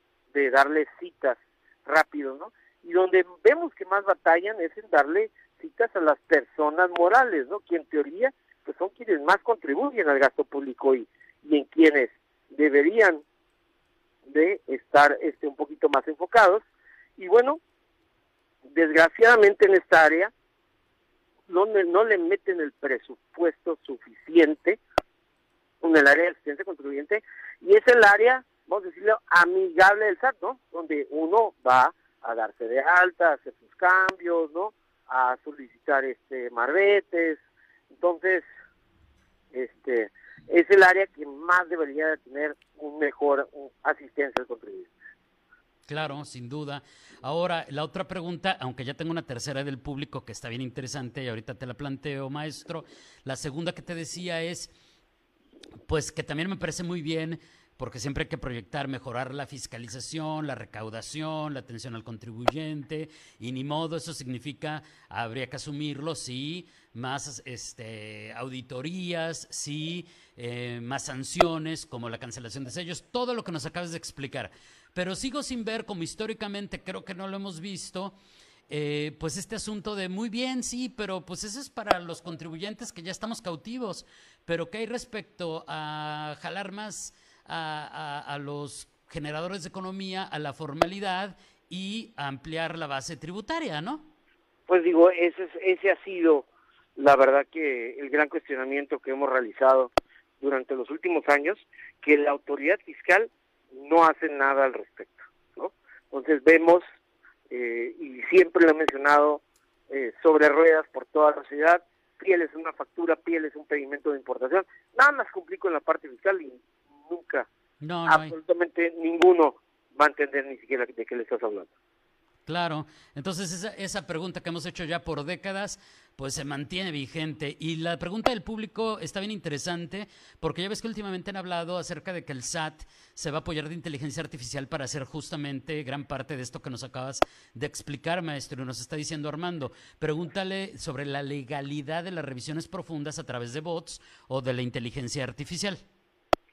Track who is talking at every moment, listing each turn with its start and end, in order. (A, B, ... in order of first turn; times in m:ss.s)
0:00.3-0:13.2 A
0:14.3-0:16.6 A
0:17.2-0:17.6 A
0:18.7-0:20.3 A
0:21.5-0:24.8 A
0:25.8-0:37.4 A
0:37.9-0:38.4 A
0:39.5-0:44.9 A
0:45.9-0:54.7 B
0:55.9-1:18.1 B
1:18.7-1:34.0 B
1:34.7-1:46.8 A
1:47.5-1:57.5 A
1:57.8-1:58.3 B
1:58.1-2:01.7 A
2:02.4-2:25.8 B